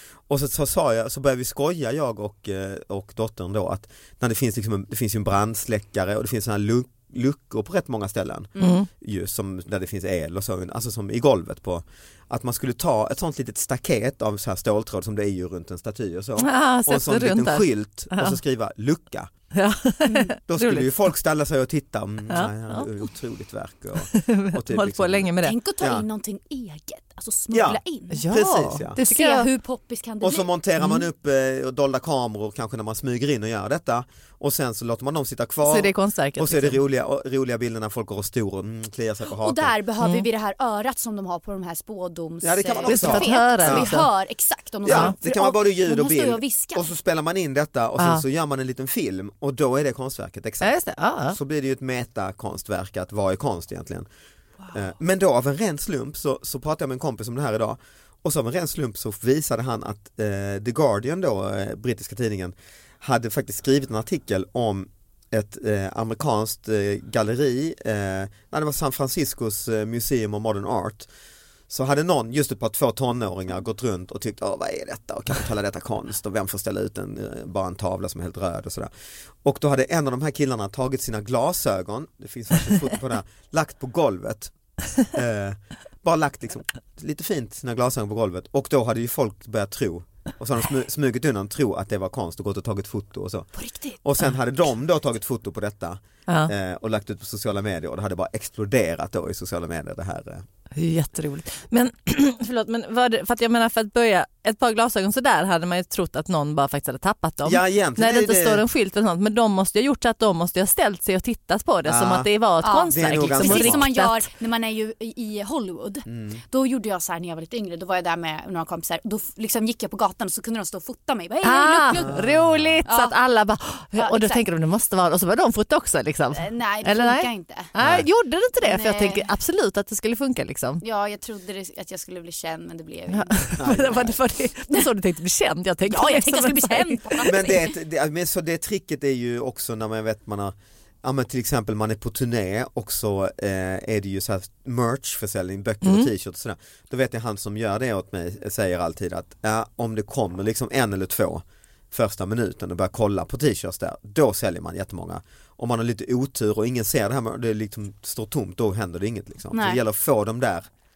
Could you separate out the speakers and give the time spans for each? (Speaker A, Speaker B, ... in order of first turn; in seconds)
Speaker A: 0.3-19.3, 20.5-26.1, 27.5-29.0, 30.2-39.7, 42.4-44.0, 44.9-50.7, 51.3-54.1, 54.7-71.1, 71.7-78.9, 79.4-84.5, 85.1-93.5, 94.0-100.5, 107.4-108.7, 111.9-112.3, 112.9-113.9, 116.1-116.4, 122.0-122.8, 127.8-128.1, 133.6-134.2, 137.2-160.7
Speaker B: 8.6-8.9, 16.4-18.4, 19.5-20.9, 22.3-22.9, 24.1-25.6, 28.1-29.5, 30.8-31.0, 35.6-36.8, 40.0-40.3, 42.9-44.1, 44.9-45.1, 48.0-48.2, 50.6-51.4, 100.8-114.3, 121.4-130.8, 133.1-137.5, 145.8-146.1
Speaker C: 20.1-20.3, 25.4-28.3, 29.1-30.5, 39.4-46.9, 93.6-94.0, 112.6-122.2, 122.9-123.2, 124.0-124.4, 126.3-127.7, 128.6-129.2, 130.8-134.2, 135.9-137.7, 159.5-159.8